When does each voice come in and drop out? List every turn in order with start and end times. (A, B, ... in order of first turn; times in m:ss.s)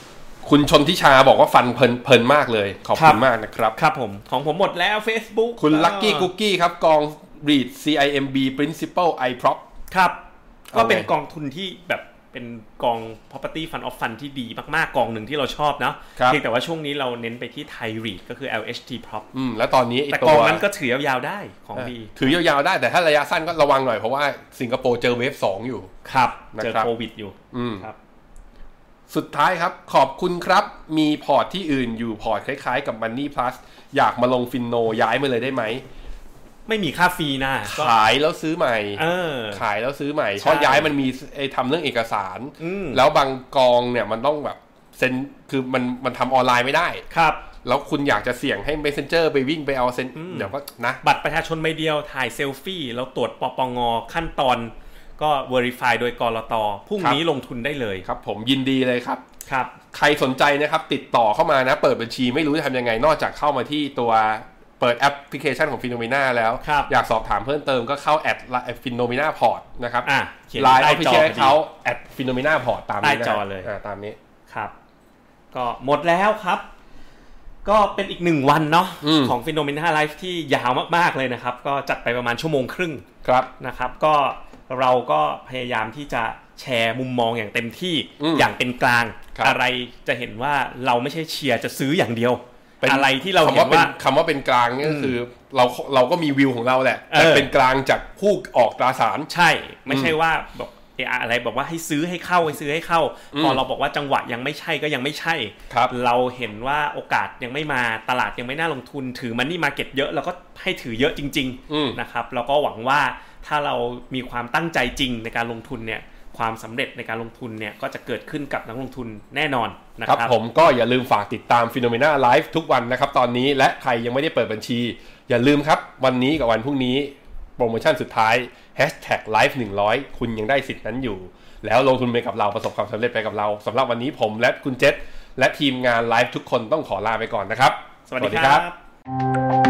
0:00.4-0:03.8 A
0:03.0-0:03.2 B
0:03.8-0:06.3 B
0:05.6-0:09.6 A
0:09.9-0:10.2 B
0:10.7-0:11.1 A
0:10.7-0:19.3 B
0:19.3-0:20.6 A
0:20.1-0:22.3 B
0:21.8-0:25.9 A
0:26.0-0:28.0 B
0:26.6-0:26.9 A
0:27.5-0:27.9 A
0:29.1-0:35.8 A
0:36.7-0:38.0 B
0:37.6-0:47.0 A
0:39.0-0:39.6 B
0:40.4-0:40.9 B
0:42.6-0:43.0 B
0:47.1-0:47.4 B
0:47.6-0:51.0 A
0:50.2-0:50.5 B
0:51.0-0:58.1 B
0:58.0-0:59.2 A
0:59.5-0:59.8 B
0:59.9-1:14.2 A
1:06.6-1:06.9 B
1:10.0-1:11.6 B
1:13.0-1:13.7 B
1:15.5-1:16.7 B
1:17.6-1:23.0 B
1:19.0-1:19.4 A
1:23.2-1:23.5 A
1:23.6-1:33.9 B
1:28.2-1:28.5 A
1:32.8-1:39.3 A
1:34.8-1:35.1 B
1:37.1-1:37.5 B
1:39.3-2:00.3 B
1:39.9-1:40.2 A
1:43.3-1:43.6 A
1:51.7-1:52.0 A
2:00.0-2:18.6 A
2:18.1-2:18.8 B